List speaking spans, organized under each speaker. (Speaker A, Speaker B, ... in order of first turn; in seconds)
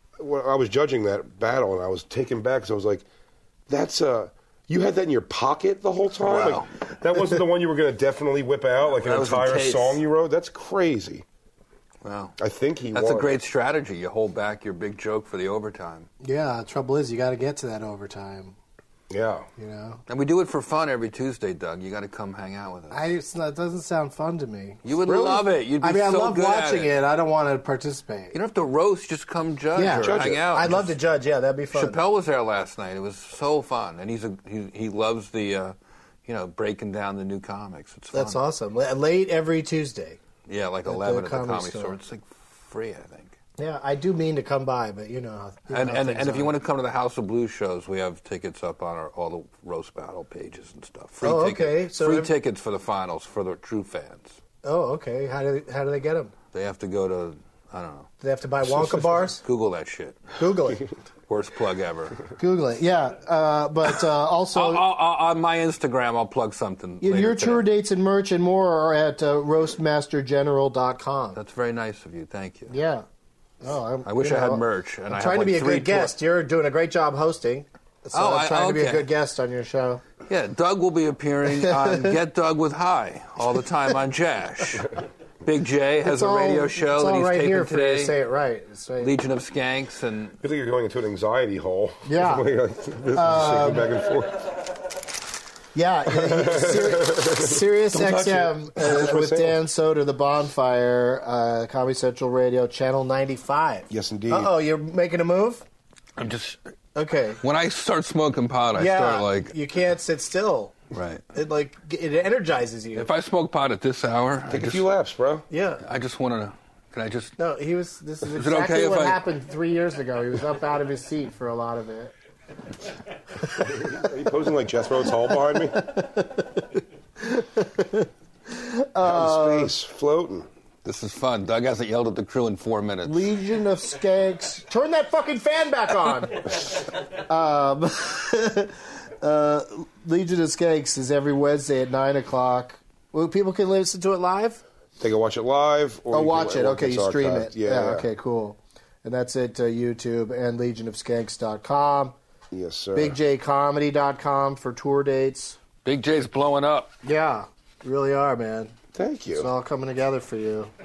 Speaker A: 0.2-3.0, 3.7-11.2, 12.4-13.4, 19.1-19.5, 29.9-30.5, 90.4-94.6, 96.1-99.6, 103.9-104.5, 114.5-115.5, 123.6-125.9, 129.0-130.5, 145.0-148.1, 152.5-153.2, 158.9-159.5
Speaker B: 6.2-6.7, 9.0-10.0, 12.0-12.3, 12.9-16.1, 20.1-23.1, 24.8-26.9, 28.3-30.9, 31.7-38.4, 40.5-43.4, 45.7-54.4, 56.5-58.1, 58.6-60.4, 61.3-62.2, 64.5-67.7, 71.3-72.7, 74.0-76.2, 78.1-79.1, 80.3-84.9, 85.4-88.1, 89.0-90.3, 106.2-106.6, 107.4-109.5, 110.9-111.2, 112.9-114.8, 115.8-117.3, 118.3-119.2, 130.8-133.3, 155.8-156.9
Speaker C: 16.2-18.6, 19.6-20.0, 22.9-28.4, 29.7-32.0, 38.1-40.2, 40.9-42.0, 43.6-46.5, 51.2-52.3, 54.6-56.3, 58.2-59.4, 60.4-60.9, 62.4-64.8, 67.0-71.4, 72.7-73.0, 73.6-80.0, 81.5-82.2, 86.0-89.1, 92.0-92.5, 93.1-93.9, 95.7-105.6, 106.9-107.4, 108.8-110.8, 111.3-113.1, 115.5-115.8, 117.4-122.1, 125.7-126.7, 127.2-129.7, 133.0-144.6, 146.1-152.1, 152.9-155.6, 157.0-158.7, 159.3-160.7